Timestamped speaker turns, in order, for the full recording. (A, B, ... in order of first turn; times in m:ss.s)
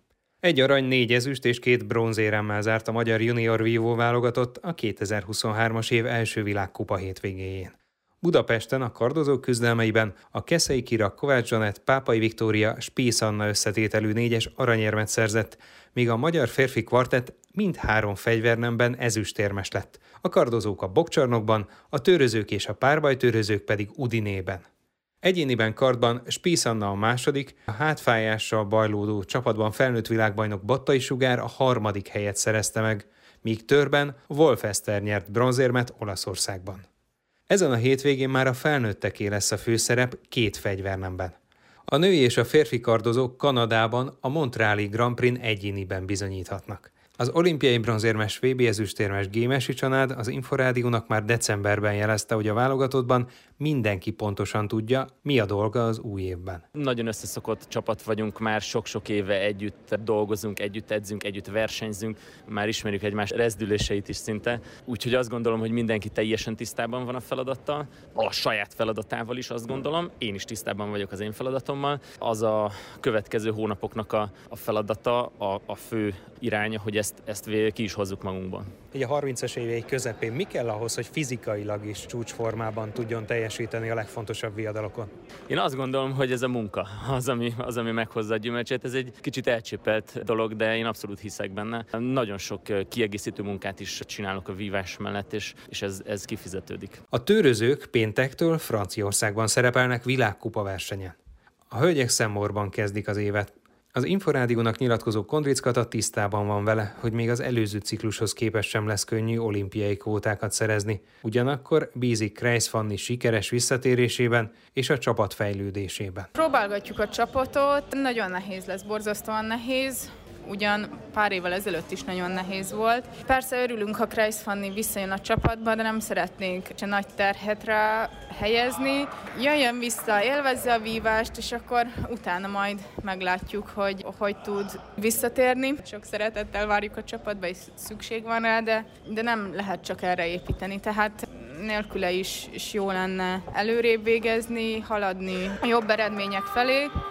0:00.4-0:24.6 A
0:25.2-0:36.8 A
0:37.5-0:41.3 A
0:41.9-0:56.6 A
0:56.9-1:18.6 B
1:18.9-1:25.1 A
1:25.6-1:36.8 B
1:37.1-1:41.2 A
1:41.7-1:56.3 A
1:56.3-2:26.9 C